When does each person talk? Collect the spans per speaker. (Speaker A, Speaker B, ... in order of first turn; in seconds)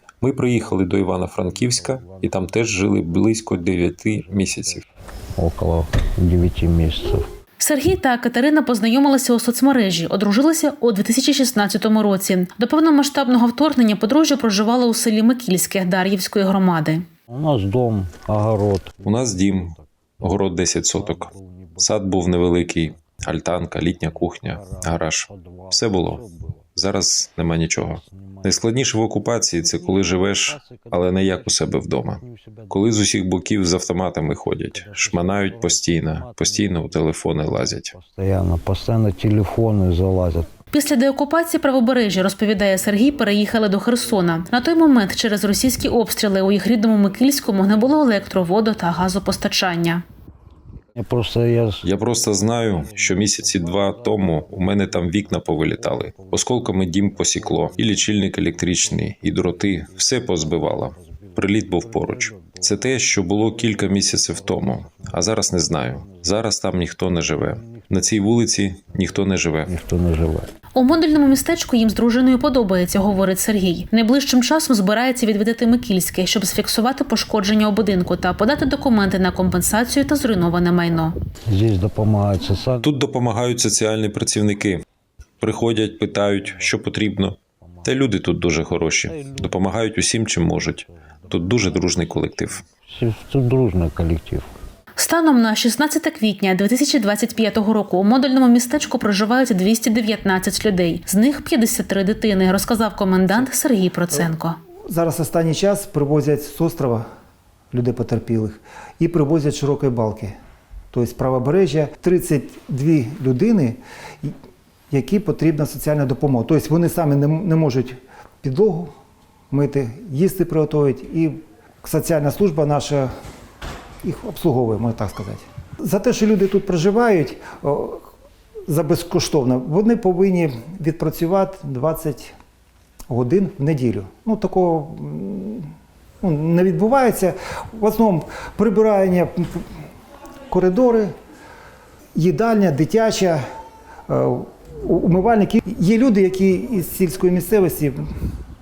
Speaker A: 0.2-4.8, 19.0-21.3, 21.8-26.2, 26.8-37.9, 51.8-69.7, 82.8-84.8, 85.4-92.6
Speaker B: 0.5-7.3, 17.3-19.8, 20.9-22.0, 24.1-26.6, 27.9-28.7, 29.5-32.9, 34.5-40.5, 51.0-51.9, 52.5-68.2, 69.0-70.5, 81.5-82.9, 86.1-86.9, 87.7-88.1, 89.1-89.5, 90.8-94.5
Speaker C: 7.6-17.0, 40.7-50.0, 70.7-81.2, 95.0-104.6
Speaker D: 104.9-107.0, 107.7-110.3, 110.9-114.3, 114.9-118.9, 119.5-123.1, 124.0-128.1, 128.7-132.3, 133.1-135.7, 136.2-139.7, 140.5-141.1, 142.2-143.4, 144.1-148.0